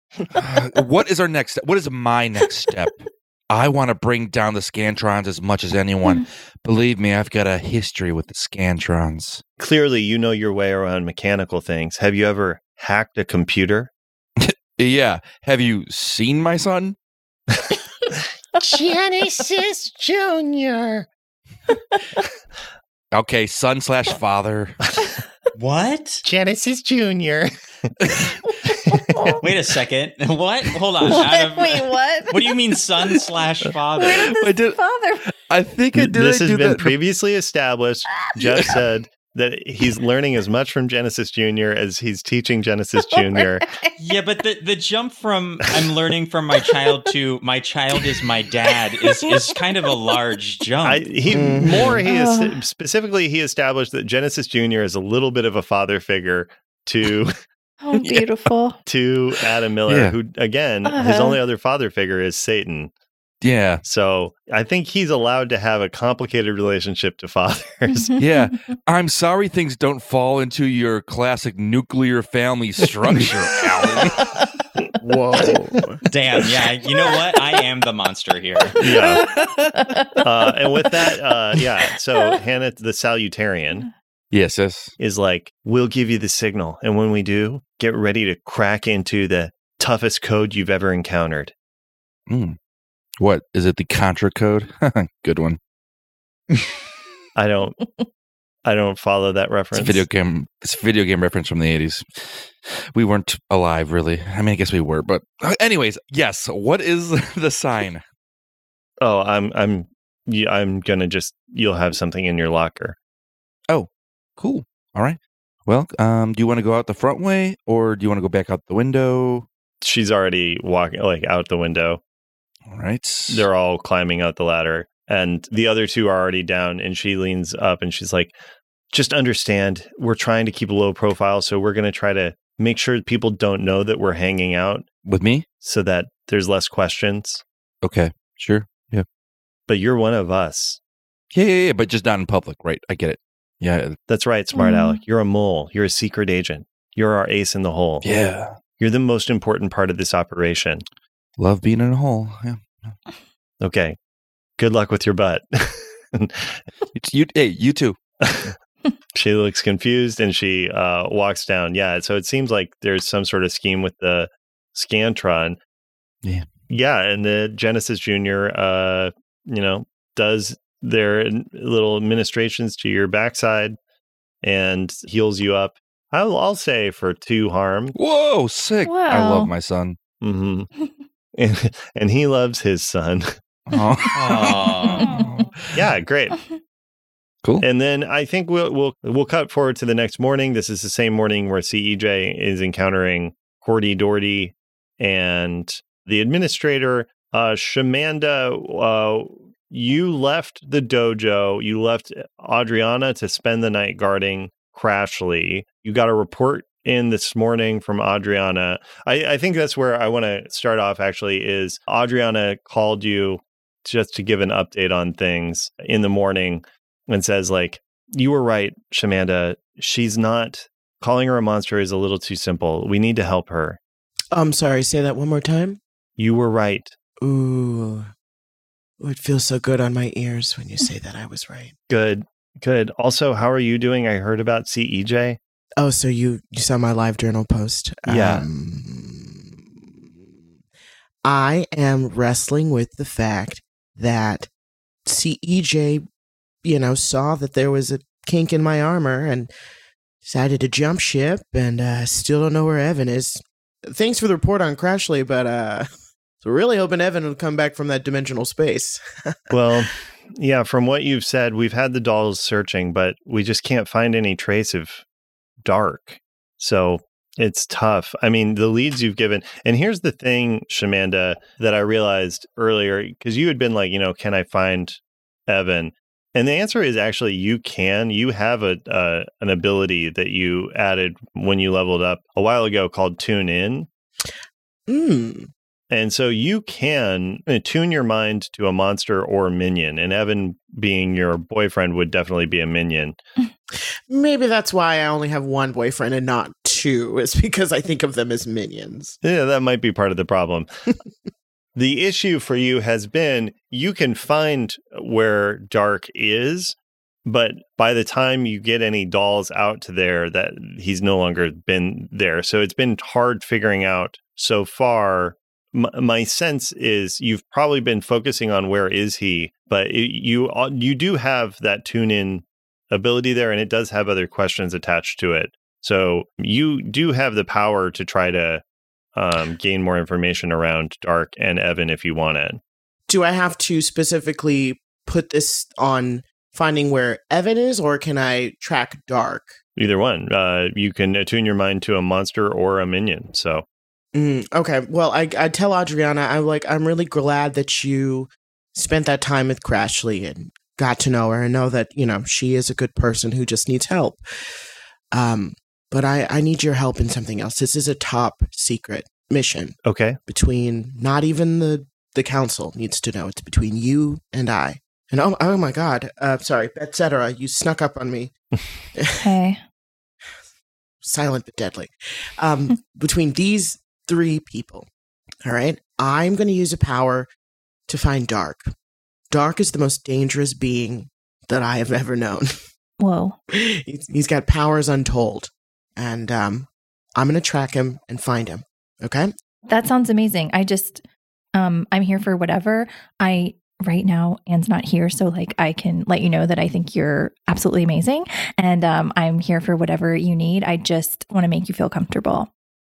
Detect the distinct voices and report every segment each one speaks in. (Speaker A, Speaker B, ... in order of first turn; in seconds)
Speaker A: 0.3-9.4, 14.4-16.9, 23.1-24.8, 28.0-28.3, 34.3-36.9, 59.9-60.1, 63.4-63.8, 68.2-74.2, 79.2-79.6, 84.3-84.9, 92.3-92.6, 93.2-95.6, 99.7-108.0, 113.7-119.5, 122.7-123.5, 135.0-135.4, 137.8-139.0, 141.3-144.0, 148.0-148.6, 151.4-152.9, 156.9-158.0, 177.9-180.0, 183.7-185.9
Speaker B: 9.6-13.9, 18.6-21.1, 26.2-28.3, 28.9-29.4, 36.0-43.6, 50.8-57.3, 58.9-62.9, 63.8-68.1, 78.8-79.2, 80.2-83.8, 85.0-91.5, 97.3-97.8, 98.6-100.0, 109.0-113.0, 119.8-122.0, 123.3-128.3, 128.9-134.8, 135.6-137.4, 139.7-140.8, 144.1-148.1, 148.8-150.8, 153.6-154.0, 154.6-156.6, 158.2-158.5, 159.1-165.6, 166.7-173.8, 174.4-177.9, 180.2-180.7, 181.3-183.3, 185.7-186.3, 187.6-223.8, 226.2-226.9, 231.9-235.4, 238.1-238.4, 259.5-265.0, 265.6-283.9, 285.9-293.2, 299.2-300.7, 301.8-328.6, 329.1-332.6, 339.8-343.6, 359.8-360.2
Speaker C: 25.5-26.2, 29.4-34.3, 44.0-51.0, 76.1-78.8, 184.1-185.1
Speaker D: 28.5-29.4, 31.1-32.5, 34.0-35.2, 43.1-43.9, 52.0-52.6, 57.8-58.8, 60.8-61.4, 68.0-68.6, 78.9-79.2, 79.7-80.2, 144.5-145.0, 178.8-179.5, 184.9-185.4, 369.2-369.6, 383.0-383.4, 389.7-391.0, 391.5-402.5
Speaker E: 51.3-52.0, 75.0-76.0, 224.3-225.8, 227.2-228.1, 229.0-231.7, 235.8-240.1, 241.2-244.5, 245.1-246.0, 246.6-249.5, 250.2-255.9, 256.4-259.6, 284.9-285.5, 294.1-299.2, 333.1-339.5, 344.1-354.2, 355.1-359.8, 360.3-368.3, 369.0-369.3, 371.0-374.9, 375.4-377.3, 377.9-378.7, 379.3-382.5, 383.5-389.3